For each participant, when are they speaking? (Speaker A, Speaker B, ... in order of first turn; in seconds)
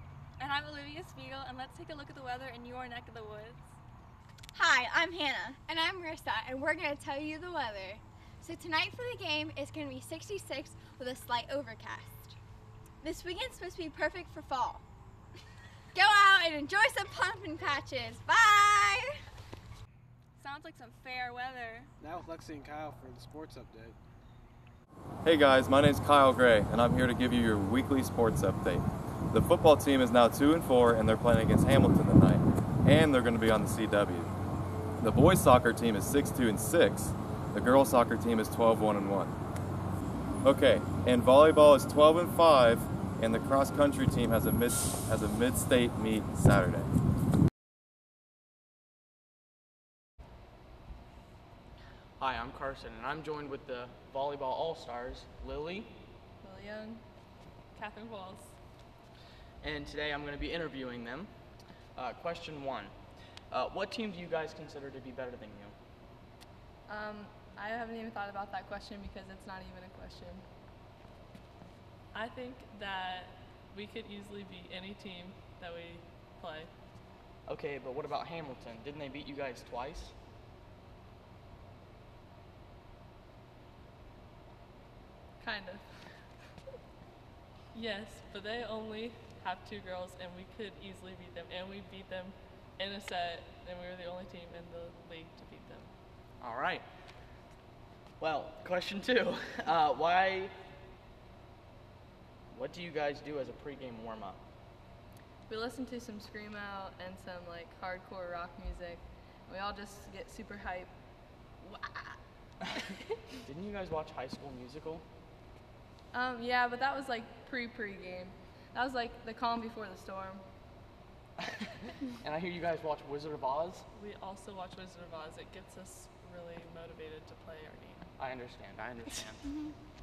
Speaker A: 0.4-3.6, 20.4-21.9
Speaker B: 4.6-12.2, 13.0-14.8, 16.0-19.0
Speaker C: 22.0-24.0
Speaker D: 25.2-34.3, 35.0-39.3, 40.4-46.9
Speaker E: 52.2-55.9, 59.6-61.3, 62.0-63.0, 63.5-65.8, 77.5-80.1, 96.4-96.8, 98.2-100.5, 102.5-104.4, 113.5-115.0, 122.2-123.8, 128.2-129.4
Speaker F: 56.4-57.0, 66.9-70.4, 85.4-86.3, 105.5-111.0, 111.5-112.2, 116.1-120.4
Speaker G: 57.7-58.5, 72.1-76.7, 87.7-95.9, 123.9-128.1